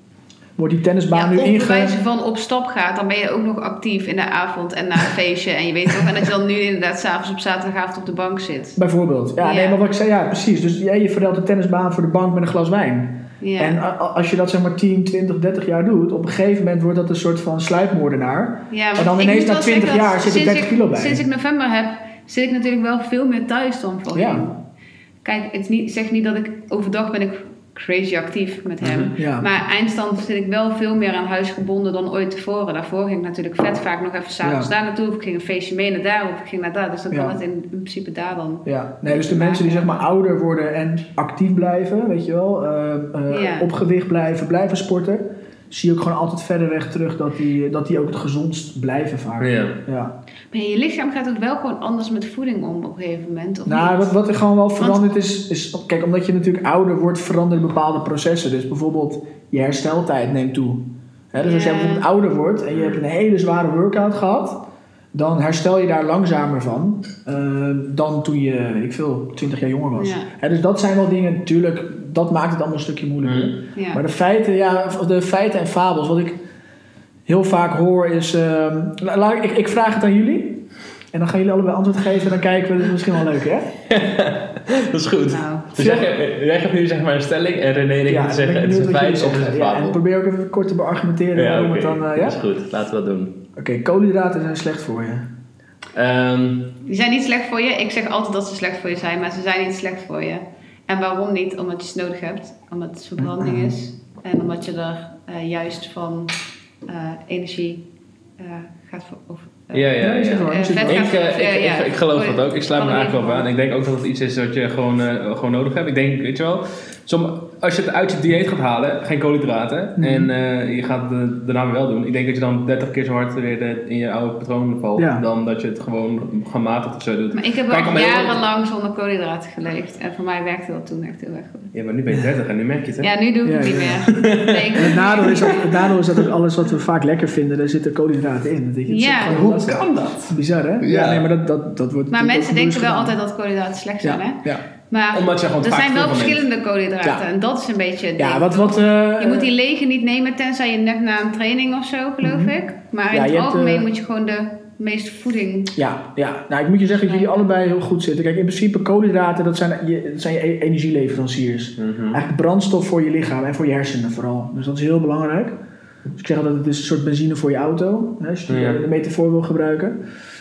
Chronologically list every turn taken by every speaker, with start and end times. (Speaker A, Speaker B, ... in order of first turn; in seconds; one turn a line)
Speaker A: 0.6-2.0
Speaker B: 1.1-8.8
Speaker A: 8.8-21.2
Speaker B: 9.4-9.8
Speaker B: 13.4-13.8
Speaker B: 18.7-24.6
Speaker A: 24.1-24.4
Speaker B: 25.2-40.0
Speaker C: 28.8-29.1
Speaker A: 29.2-29.5
Speaker A: 34.4-34.7
Speaker A: 37.1-37.4
Speaker A: 38.6-50.1
Speaker B: 43.3-43.7
Speaker C: 49.4-49.8
Speaker B: 50.5-54.1
Speaker A: 53.6-76.4
Speaker B: 54.8-55.0
Speaker B: 61.4-62.0
Speaker B: 69.9-70.3
Speaker C: 73.2-73.6
Speaker B: 73.7-74.0
Speaker A: 77.3-83.7
Speaker C: 83.9-90.0
Speaker B: 85.3-85.7
Speaker A: 85.8-86.1
Speaker A: 88.1-92.4
Speaker C: 91.3-93.3
Speaker A: 93.5-95.3
Speaker C: 95.9-96.7
Speaker B: 96.8-106.3
Speaker A: 103.2-103.7
Speaker B: 106.8-107.8
Speaker B: 108.4-113.5
Speaker C: 109.7-128.4
Speaker A: 110.0-111.1
Speaker A: 120.0-120.3
Speaker A: 125.0-125.2
Speaker B: 127.3-131.7
Speaker C: 131.7-133.1
Speaker B: 133.0-135.6
Speaker A: 133.4-134.1
Speaker C: 134.1-136.2
Speaker A: 134.8-143.2
Speaker B: 138.9-139.4
Speaker C: 139.2-140.3
Speaker C: 140.8-141.3
Speaker B: 142.1-155.7
Speaker A: 144.0-144.6
Speaker C: 145.1-146.4
Speaker A: 148.2-149.5
Speaker A: 152.2-152.5
Speaker A: 153.1-153.9
Speaker A: 155.7-165.6
Speaker B: 157.0-157.5
Speaker C: 161.8-162.2
Speaker A: 166.1-170.0
Speaker C: 168.5-168.8